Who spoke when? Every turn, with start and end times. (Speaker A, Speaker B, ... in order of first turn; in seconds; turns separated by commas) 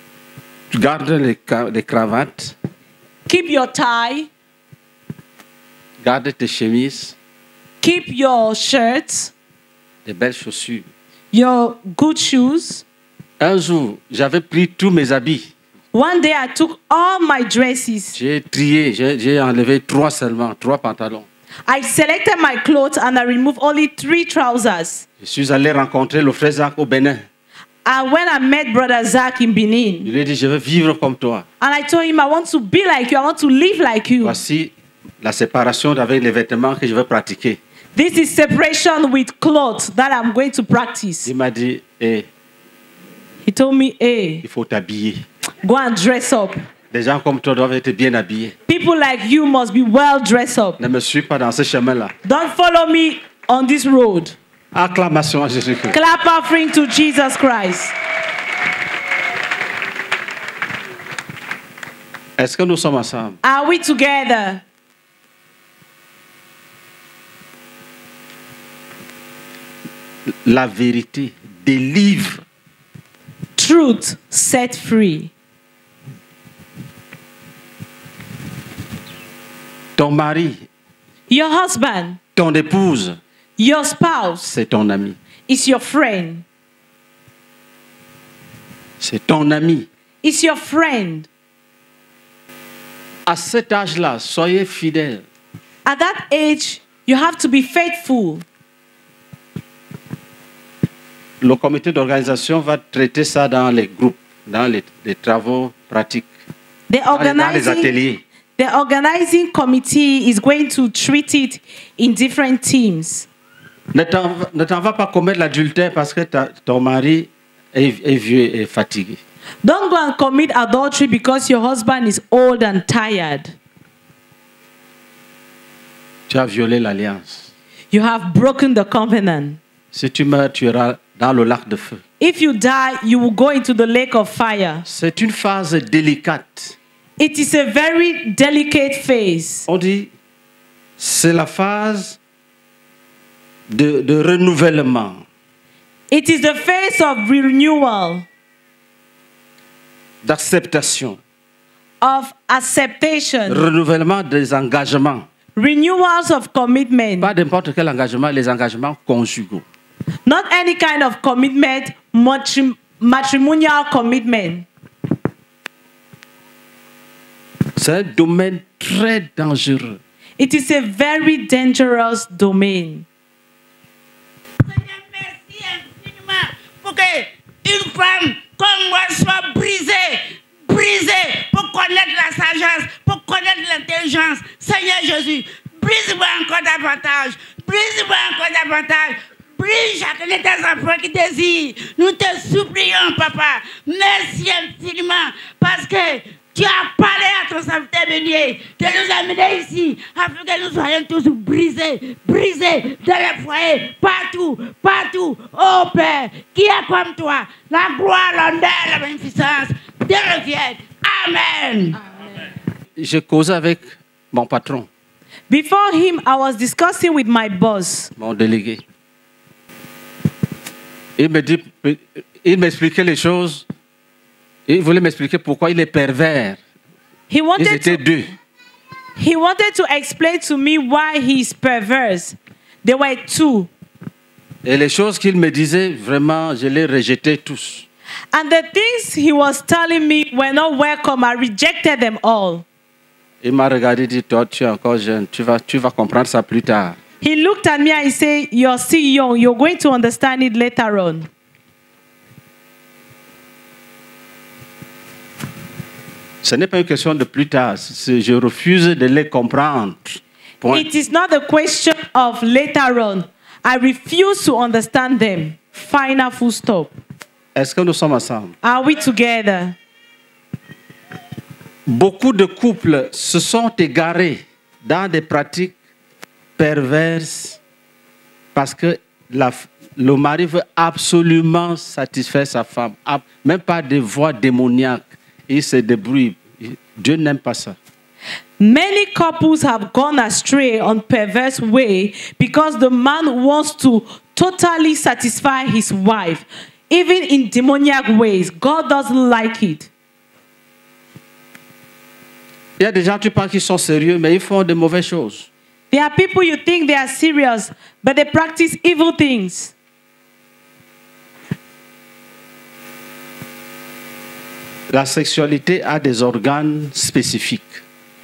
Speaker A: 0.7-2.5, Speaker B: 3.3-4.3, Speaker A: 6.0-7.2, Speaker B: 7.8-9.3, Speaker A: 10.1-10.9, Speaker B: 11.3-12.8, Speaker A: 13.4-15.5, Speaker B: 15.9-18.2, Speaker A: 18.1-21.3, Speaker B: 21.7-25.1, Speaker A: 25.2-27.3, Speaker B: 27.9-30.1, Speaker A: 30.0-31.4, Speaker B: 31.6-34.4, Speaker A: 34.2-37.6, Speaker B: 38.0-41.3, Speaker A: 41.2-42.3, Speaker B: 43.5-44.4, Speaker A: 44.4-45.2, Speaker B: 45.6-46.6, Speaker A: 46.9-48.5, Speaker B: 48.7-50.8, Speaker A: 50.8-52.1, Speaker B: 52.2-54.4, Speaker A: 54.7-56.0, Speaker B: 55.9-57.9, Speaker A: 62.4-63.4, Speaker B: 63.4-64.6, Speaker A: 70.3-72.4, Speaker B: 73.6-75.3, Speaker A: 80.0-80.7, Speaker B: 81.3-82.2, Speaker A: 82.4-83.2, Speaker B: 83.6-84.5, Speaker A: 84.5-85.2, Speaker B: 85.5-86.5, Speaker A: 89.0-89.9, Speaker B: 90.2-91.3, Speaker A: 93.3-95.2, Speaker B: 95.8-98.5, Speaker A: 101.4-106.3, Speaker B: 106.9-107.9, Speaker A: 107.1-108.2, Speaker B: 108.6-113.3, Speaker A: 113.9-119.2, Speaker B: 119.6-123.5, Speaker A: 126.3-127.5, Speaker B: 127.9-129.6, Speaker A: 129.9-132.0, Speaker B: 132.2-134.8, Speaker A: 134.8-136.8, Speaker B: 137.2-139.7, Speaker A: 139.7-140.1, Speaker A: 141.0-142.2, Speaker A: 143.7-145.2, Speaker B: 146.1-148.3, Speaker A: 150.2-151.2, Speaker B: 152.0-153.7, Speaker A: 153.5-155.3, Speaker B: 155.6-157.3, Speaker A: 157.2-159.6, Speaker B: 160.3-164.7, Speaker A: 167.8-170.0, Speaker B: 170.4-173.1, Speaker C: 174.6-212.0, Speaker A: 213.0-214.9, Speaker B: 215.5-218.1, Speaker A: 218.2-218.8, Speaker A: 221.2-223.7, Speaker A: 224.7-226.6, Speaker B: 227.3-228.0, Speaker A: 227.6-228.3, Speaker B: 229.2-233.7, Speaker A: 234.7-237.8, Speaker B: 238.3-242.7, Speaker A: 243.4-247.0, Speaker B: 247.2-251.3, Speaker A: 256.4-260.9, Speaker B: 260.7-266.9, Speaker A: 267.6-268.6, Speaker B: 268.6-269.8, Speaker A: 271.9-275.8, Speaker A: 276.6-277.6, Speaker A: 278.5-287.8, Speaker B: 288.6-299.9, Speaker A: 302.8-305.5, Speaker B: 305.9-309.7, Speaker A: 314.9-317.8